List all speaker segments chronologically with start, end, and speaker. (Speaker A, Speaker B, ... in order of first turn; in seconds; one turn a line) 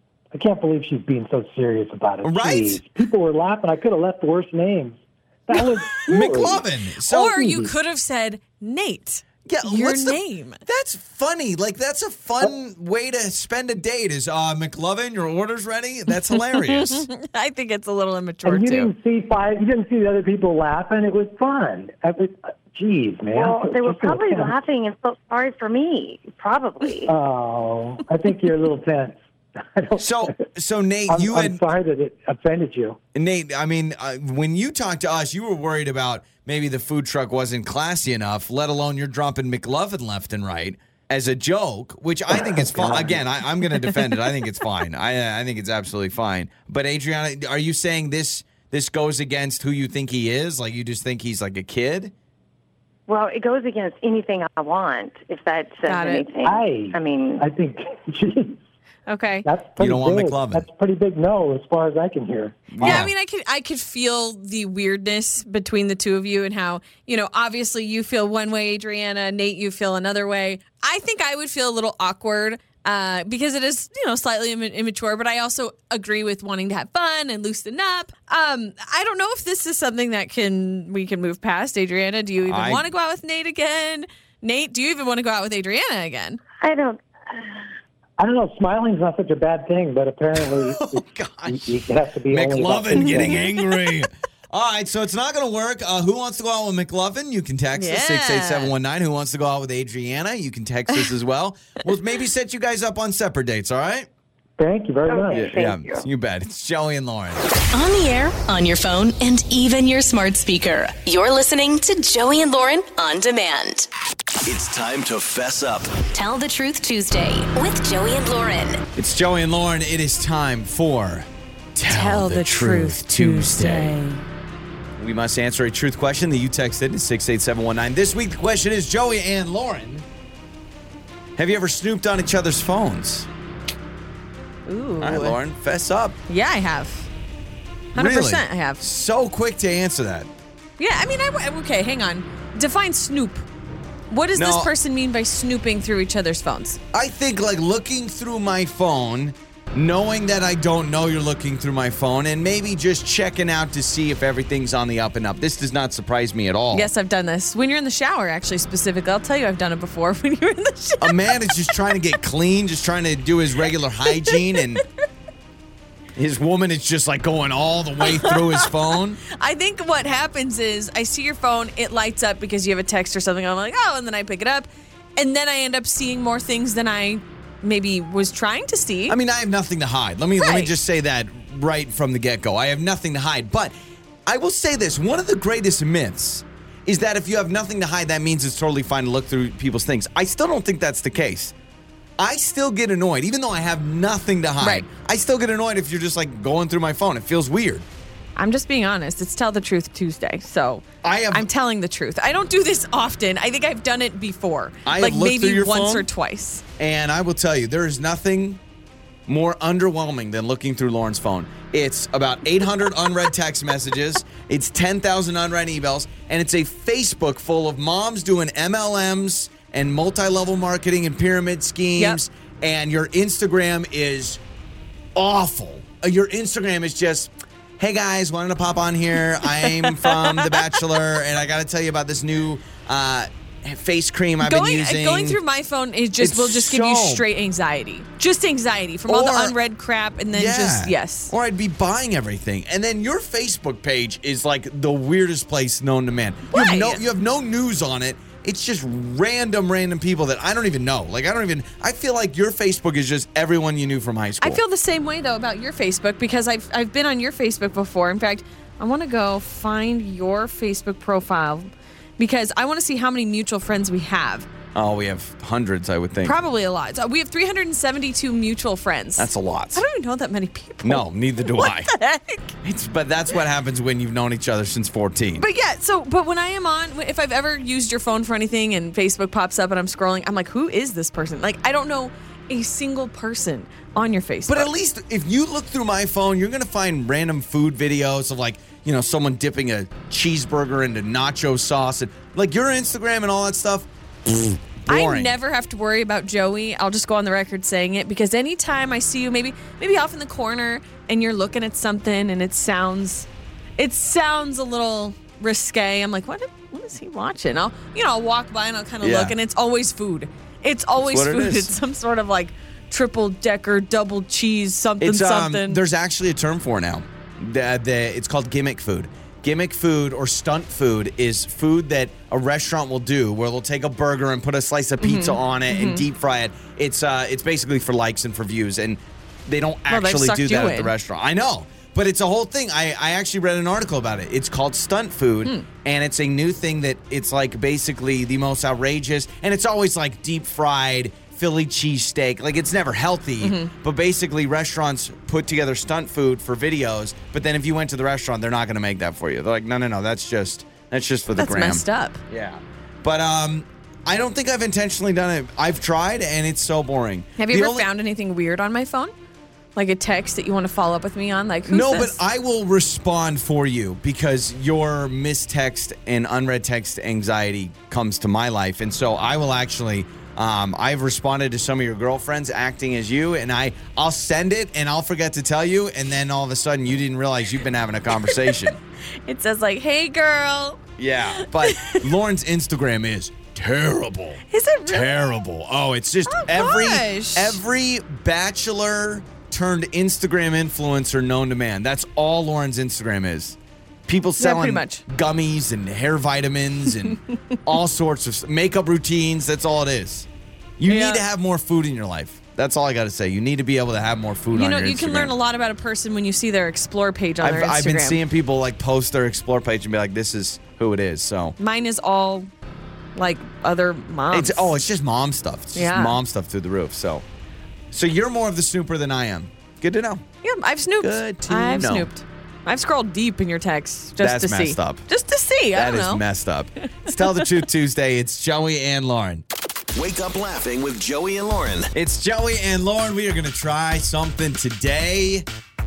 Speaker A: 0.3-6.6
Speaker B: 2.2-2.8
Speaker B: 6.0-7.4
Speaker C: 7.1-10.6
Speaker A: 7.3-7.7
Speaker B: 9.4-17.1
Speaker C: 16.3-18.9
Speaker A: 18.4-24.5
Speaker D: 23.3-27.1
Speaker A: 27.1-29.2
Speaker A: 29.7-30.4
Speaker B: 30.0-31.6
Speaker A: 31.1-33.0
Speaker B: 33.1-52.1
Speaker A: 42.4-43.2
Speaker D: 53.1-57.4
Speaker C: 55.9-56.2
Speaker A: 56.4-58.6
Speaker C: 59.1-59.5
Speaker A: 59.4-63.0
Speaker B: 59.8-60.6
Speaker B: 62.7-63.1
Speaker C: 62.8-86.4
Speaker B: 82.4-82.8
Speaker D: 86.6-87.7
Speaker A: 88.2-93.5
Speaker B: 90.4-104.1
Speaker C: 93.0-93.5
Speaker C: 97.7-98.7
Speaker A: 104.6-105.6
Speaker D: 105.1-106.0
Speaker B: 105.3-107.5
Speaker E: 107.7-113.9
Speaker F: 114.4-116.0
Speaker E: 116.0-118.8
Speaker B: 118.9-124.0
Speaker C: 121.8-124.2
Speaker B: 125.0-130.1
Speaker B: 131.4-133.3
Speaker C: 134.7-135.4
Speaker B: 135.0-136.2
Speaker C: 136.3-137.1
Speaker C: 137.9-138.8
Speaker B: 137.9-140.3
Speaker C: 140.8-143.4
Speaker C: 144.1-146.8
Speaker B: 144.3-144.7
Speaker B: 146.9-156.9
Speaker C: 156.7-161.4
Speaker B: 161.0-164.8
Speaker C: 164.1-164.6
Speaker B: 166.2-169.2
Speaker C: 168.0-168.7
Speaker C: 169.3-179.2
Speaker B: 179.1-183.7
Speaker C: 180.4-180.7
Speaker B: 184.2-191.5
Speaker B: 192.2-197.8
Speaker C: 194.6-194.8
Speaker C: 198.4-206.6
Speaker B: 201.0-201.5
Speaker B: 204.8-206.1
Speaker B: 206.8-208.6
Speaker B: 209.3-224.4
Speaker B: 225.1-235.4
Speaker C: 229.5-230.8
Speaker C: 234.4-241.3
Speaker B: 236.2-237.2
Speaker B: 239.1-239.6
Speaker B: 240.3-254.6
Speaker C: 246.5-247.0
Speaker C: 254.4-264.5
Speaker B: 264.7-266.4
Speaker C: 266.2-272.5
Speaker B: 269.2-269.8
Speaker B: 270.8-271.9
Speaker B: 272.6-275.4
Speaker C: 275.4-284.7
Speaker B: 284.5-295.3
Speaker C: 294.9-315.8
Speaker B: 309.0-309.4
Speaker B: 311.0-311.7
Speaker B: 315.0-357.9
Speaker C: 325.0-326.0
Speaker C: 329.9-330.9
Speaker C: 343.4-343.7
Speaker C: 351.4-352.2
Speaker C: 357.4-359.1
Speaker C: 359.8-362.2
Speaker B: 361.6-378.8
Speaker C: 378.2-378.6
Speaker C: 379.2-380.8
Speaker B: 381.0-400.3
Speaker C: 381.3-382.1
Speaker C: 384.5-385.2
Speaker C: 386.3-387.6
Speaker C: 394.4-395.0
Speaker B: 400.8-405.3
Speaker C: 400.9-401.2
Speaker C: 404.5-408.2
Speaker B: 407.4-411.6
Speaker C: 411.6-412.5
Speaker C: 413.1-414.7
Speaker B: 414.3-417.2
Speaker C: 415.7-416.2
Speaker B: 417.9-420.2
Speaker C: 420.4-426.2
Speaker B: 421.0-422.1
Speaker B: 424.2-425.1
Speaker B: 425.7-429.4
Speaker C: 427.0-427.4
Speaker F: 429.9-431.9
Speaker B: 431.9-435.5